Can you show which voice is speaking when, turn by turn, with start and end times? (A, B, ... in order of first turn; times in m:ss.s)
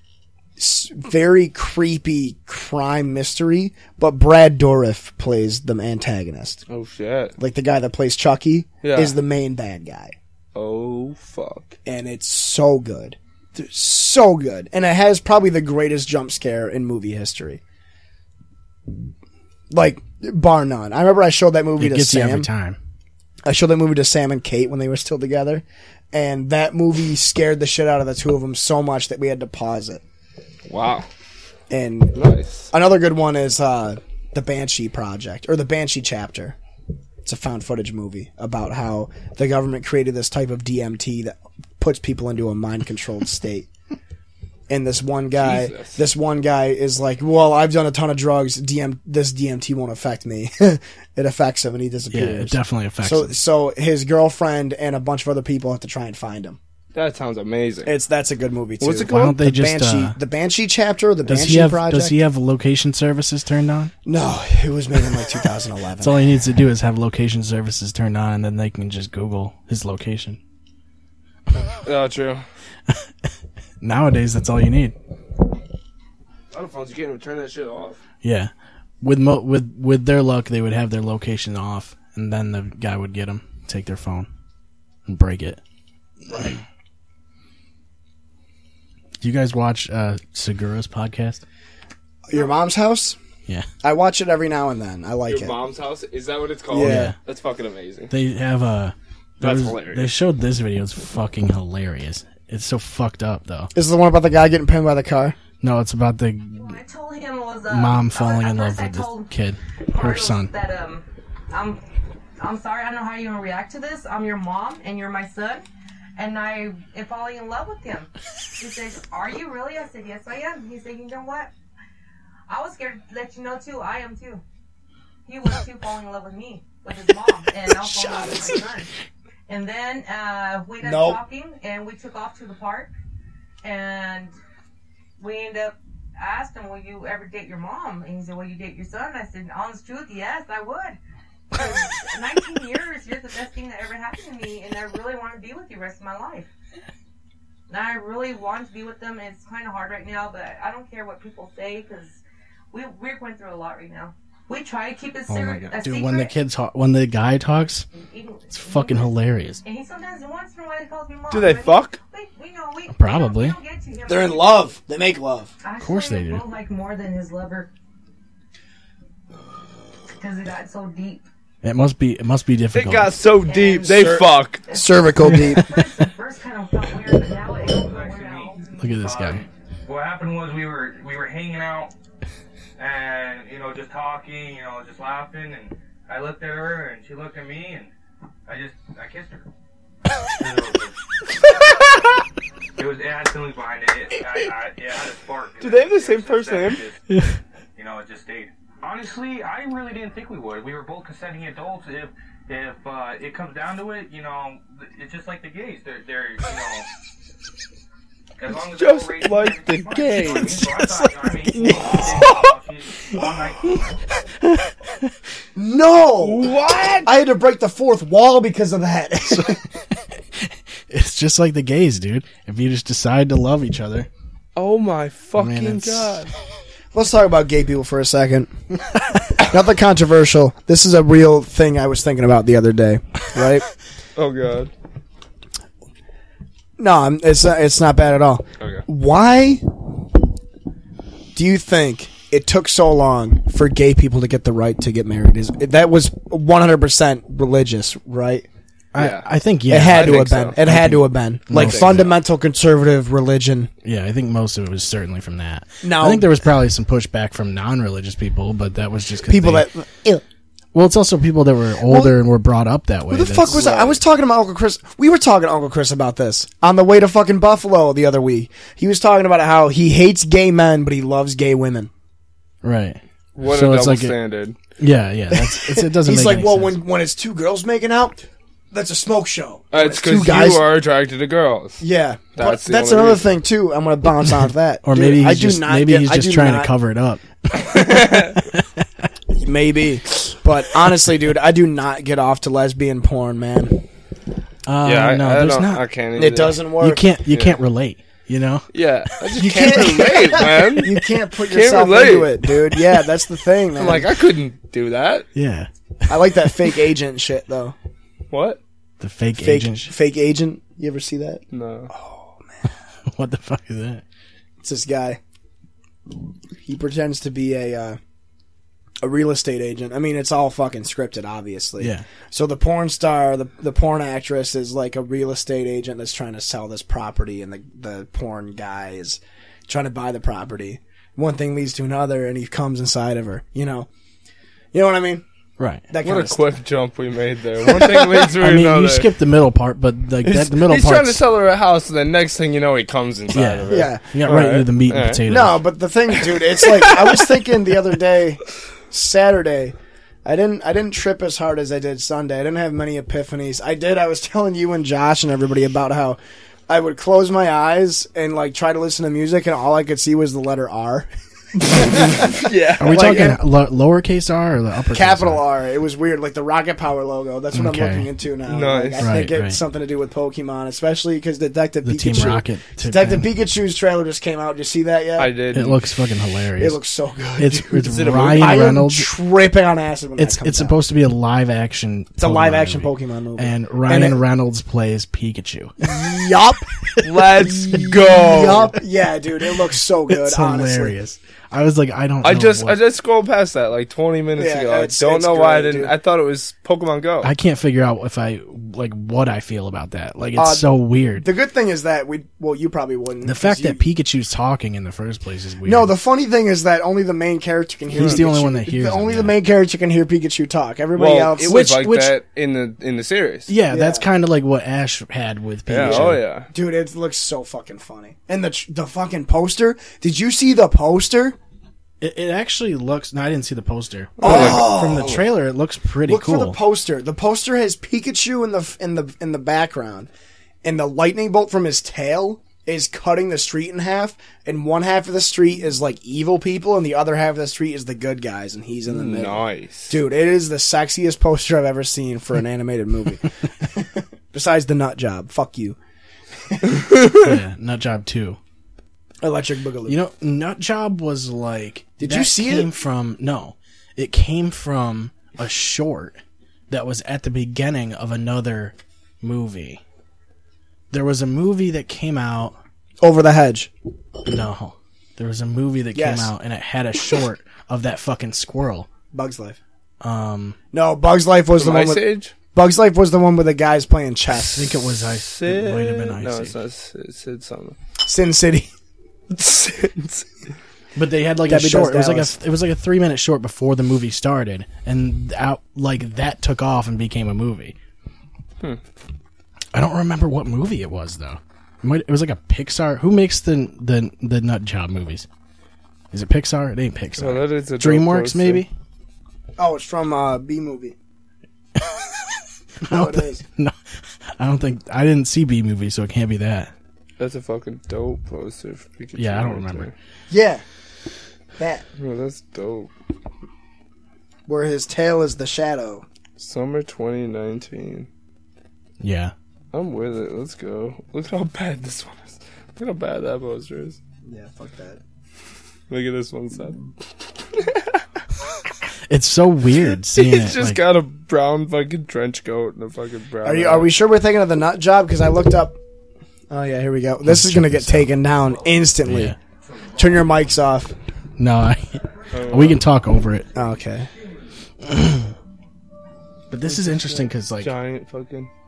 0:00.6-0:06.6 A
0:06.7-0:07.4 B
0:07.4-0:10.2 A
0:08.8-0:09.2 B
0:10.6-0:11.8 B
0:11.8-0:17.6 A
0:19.7-0:22.5 A
0:21.8-0:22.8 C
0:23.4-0:30.0 A
0:30.7-0:31.1 B
0:31.7-0:32.2 A
0:32.2-0:32.7 B
0:32.7-0:36.6 A
0:37.2-0:43.7 A
0:44.7-0:56.6 A
0:45.4-0:46.0 B
0:52.1-0:53.4 C
0:56.9-0:57.9 B
0:57.9-1:02.2 A
0:58.8-0:59.3 B
0:59.1-1:00.2 C
1:01.2-1:03.9 C
1:04.0-1:06.2 A
1:06.0-1:10.4 C
1:11.8-1:12.4 B
1:13.8-1:15.0 C
1:16.5-1:18.0 B
1:18.2-1:24.3 C
1:25.1-1:25.6 C
1:26.3-1:26.6 B
1:29.2-1:31.4 C
1:32.3-1:33.2 A
1:33.8-1:35.6 A
1:35.3-1:38.1 B
1:36.7-1:37.1 A
1:36.8-1:37.2 C
1:38.1-1:43.7 C
1:39.4-1:40.1 B
1:43.7-1:45.4 A
1:45.6-1:46.8 C
1:46.6-1:49.3 D
1:47.7-1:50.5 C
1:49.9-1:51.8 D
1:52.4-1:55.6 D
1:56.2-2:01.5 D
2:02.5-2:04.4 D
2:05.3-2:08.9 D
2:09.5-2:12.9 D
2:10.8-2:11.2 A
2:13.6-2:14.3 D
2:15.2-2:21.0 D
2:21.5-2:26.5 D
2:27.7-2:32.2 D
2:32.7-2:36.3 D
2:35.3-2:37.9 C
2:37.9-2:44.7 D
2:38.5-2:39.6 C
2:41.3-2:42.0 B
2:42.9-2:43.6 C
2:44.1-2:45.5 A
2:45.6-2:47.7 D
2:45.8-2:46.4 C
2:50.1-2:51.2 D
2:51.6-2:53.2 C
2:52.7-2:54.6 B
2:53.5-2:58.8 D
2:54.7-2:55.7 A
2:55.4-2:55.8 C
2:57.6-3:01.9 E
2:58.8-2:59.4 C
3:02.8-3:07.9 E
3:08.5-3:09.5 E
3:10.3-3:11.9 E
3:12.8-3:17.0 E
3:15.6-3:16.8 B
3:17.1-3:17.4 C
3:17.8-3:26.9 E
3:28.4-3:33.9 E
3:28.6-3:30.7 B
3:30.4-3:32.3 C
3:31.6-3:32.5 B
3:34.4-3:35.1 C
3:35.6-3:39.6 A
3:36.2-3:37.1 B
3:40.4-3:44.1 C
3:44.6-3:46.3 B
3:45.4-3:46.2 C
3:46.9-3:48.5 A
3:49.3-3:53.7 A
3:54.2-3:54.7 B
3:56.8-3:59.9 A
4:01.4-4:08.5 A
4:08.9-4:12.1 C
4:09.0-4:09.3 B
4:09.7-4:13.7 A
4:09.9-4:10.6 B
4:11.6-4:12.0 B
4:13.8-4:19.7 C
4:15.8-4:16.3 A
4:19.3-4:20.2 A
4:20.7-4:23.7 C
4:21.8-4:22.2 A
4:23.1-4:31.9 A
4:23.5-4:24.0 B
4:32.6-4:34.2 C
4:33.4-4:34.6 B
4:34.8-4:36.8 C
4:35.3-4:40.6 A
4:39.7-4:41.8 B
4:41.8-4:46.7 A
4:42.4-4:43.4 B
4:44.8-4:48.8 C
4:47.5-4:48.4 B
4:49.3-4:53.8 A
4:54.7-4:55.8 C
4:54.8-4:56.7 B
4:56.2-4:57.2 A
4:56.8-4:58.7 C
4:57.3-4:57.6 B
4:58.7-5:02.4 B
4:59.4-5:04.1 A
5:03.8-5:05.3 B
5:05.4-5:06.6 C
5:06.1-5:07.8 A
5:08.3-5:08.6 B
5:09.0-5:09.9 C
5:09.4-5:12.6 A
5:11.5-5:11.9 B
5:13.1-5:14.0 C
5:14.6-5:15.2 A
5:16.6-5:18.0 A
5:19.0-5:33.9 A
5:21.8-5:22.0 C
5:34.7-5:35.2 A
5:35.6-5:35.8 C
5:35.9-5:36.4 A
5:36.0-5:39.1 B
5:37.6-5:38.3 A
5:38.4-5:41.2 C
5:40.2-5:45.2 B
5:43.3-5:45.6 C
5:43.7-5:44.4 A
5:45.3-5:56.2 A
5:46.2-5:47.2 B
5:56.7-6:03.4 A
6:02.2-6:03.2 B
6:02.8-6:05.4 C
6:04.9-6:15.4 A
6:07.5-6:08.1 C
6:08.5-6:09.1 B
6:09.0-6:09.6 C
6:11.8-6:13.3 C
6:15.2-6:15.8 B
6:15.5-6:16.8 C
6:16.6-6:20.8 A
6:17.4-6:19.1 C
6:17.8-6:18.6 B
6:20.2-6:25.9 C
6:22.2-6:24.2 A
6:25.8-6:31.0 A
6:27.0-6:28.8 B
6:30.1-6:32.8 C
6:32.2-6:37.3 B
6:34.4-6:35.9 A
6:37.2-6:41.3 C
6:40.4-6:43.8 A
6:43.2-6:45.9 C
6:45.6-6:51.7 A
6:47.9-6:49.4 C
6:51.0-6:53.5 B
6:51.5-6:52.2 C
6:53.5-6:56.2 C
6:53.7-6:54.1 A
6:55.7-6:56.5 B
6:55.8-7:01.4 A
7:02.0-7:06.6 C
7:04.2-7:05.2 B
7:04.2-7:05.2 A
7:06.1-7:10.1 A
7:10.6-7:25.8 A
7:18.9-7:20.0 B
7:26.5-7:26.8 A
7:26.9-7:27.2 B
7:27.1-7:28.4 C
7:29.2-7:30.0 A
7:29.9-7:36.2 C
7:32.0-7:32.7 A
7:36.7-7:39.8 C
7:40.9-7:42.6 C
7:43.0-7:43.7 A
7:44.3-7:48.9 C
7:45.9-7:46.3 A
7:49.1-7:49.6 A
7:50.0-7:50.6 C
7:50.7-7:52.0 A
7:51.6-7:52.3 B
7:52.5-7:54.7 A
7:54.5-7:56.6 C
7:55.0-7:57.8 B
7:58.0-7:58.7 A
7:59.3-8:00.3 B
8:01.0-8:07.8 C
8:01.5-8:02.4 A
8:09.7-8:15.3 C
8:16.1-8:18.7 C
8:17.2-8:18.7 B
8:19.6-8:21.0 A
8:22.8-8:23.8 C
8:22.8-8:23.4 A
8:24.4-8:26.7 C
8:27.2-8:29.9 B
8:29.2-8:29.9 C
8:30.3-8:30.6 A
8:31.6-8:31.8 A
8:32.0-8:32.9 B
8:34.5-8:36.0 A
8:36.4-8:38.1 B
8:39.0-8:39.3 C
8:39.7-8:44.0 B
8:44.2-8:45.0 A
8:45.9-8:46.8 B
8:47.5-8:48.0 B
8:49.1-8:50.8 C
8:49.9-8:53.9 B
8:53.4-8:55.8 A
8:56.5-8:59.4 A
8:57.2-8:58.2 C
8:59.0-8:59.4 C
9:00.0-9:01.0 A
9:01.4-9:03.5 C
9:02.3-9:02.8 B
9:03.5-9:04.1 A
9:04.8-9:05.3 C
9:06.5-9:07.7 C
9:06.7-9:08.5 B